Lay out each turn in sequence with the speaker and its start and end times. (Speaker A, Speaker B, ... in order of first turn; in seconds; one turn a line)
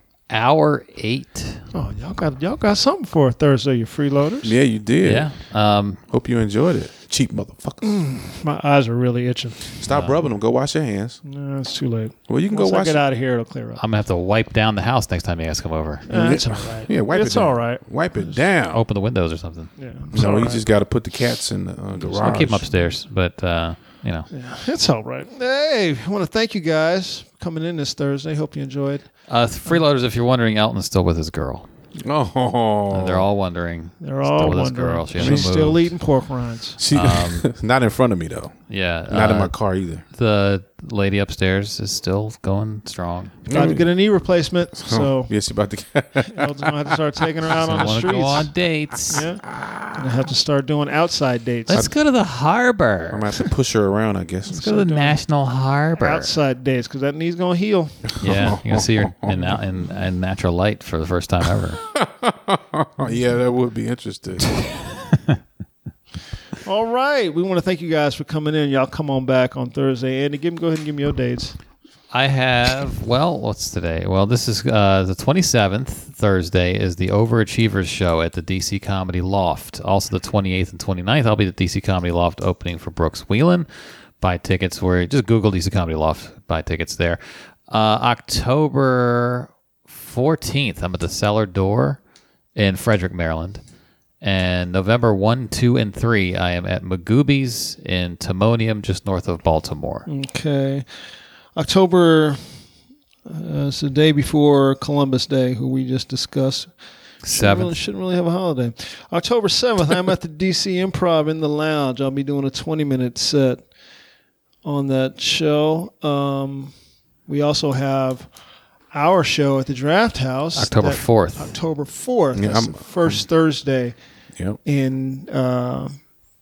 Speaker A: 0.3-1.6
Speaker B: 1.7-4.5
Speaker C: 4.4-5.5
Speaker A: 5.0-6.0
Speaker C: 6.1-8.0
Speaker B: 7.8-9.8
Speaker C: 9.8-11.2
Speaker A: 9.9-10.2
Speaker B: 11.2-13.8
Speaker C: 12.3-13.0
Speaker A: 13.8-16.1
Speaker B: 16.1-18.4
Speaker C: 16.1-18.8
Speaker A: 18.7-19.7
Speaker B: 19.8-20.6
Speaker C: 20.1-22.7
Speaker A: 22.1-24.3
Speaker B: 24.3-29.1
Speaker A: 29.3-31.7
Speaker C: 32.0-33.2
Speaker A: 32.9-35.9
Speaker B: 34.0-36.8
Speaker C: 35.2-35.5
Speaker C: 36.8-40.0
Speaker A: 36.9-37.4
Speaker A: 38.7-39.5
Speaker A: 40.1-43.4
Speaker C: 43.5-43.9
Speaker B: 43.5-45.3
Speaker C: 44.8-48.4
Speaker B: 46.3-48.5
Speaker A: 47.6-49.2
Speaker B: 49.1-51.8
Speaker C: 49.6-49.9
Speaker A: 51.7-53.4
Speaker C: 53.1-54.8
Speaker B: 54.5-55.2
Speaker A: 54.6-56.3
Speaker B: 56.0-58.1
Speaker A: 58.2-61.8
Speaker C: 58.2-59.6
Speaker C: 61.9-64.6
Speaker B: 66.6-71.5
Speaker A: 72.1-83.7
Speaker A: 84.2-92.0
Speaker A: 92.5-93.6
Speaker A: 94.2-100.1
Speaker B: 100.1-100.9
Speaker B: 101.5-102.4
Speaker B: 103.2-106.7
Speaker A: 107.2-107.8
Speaker B: 107.2-113.6
Speaker B: 114.6-116.7
Speaker B: 117.3-118.3
Speaker B: 118.9-123.9
Speaker A: 120.5-121.5
Speaker C: 122.3-123.2
Speaker B: 124.6-126.0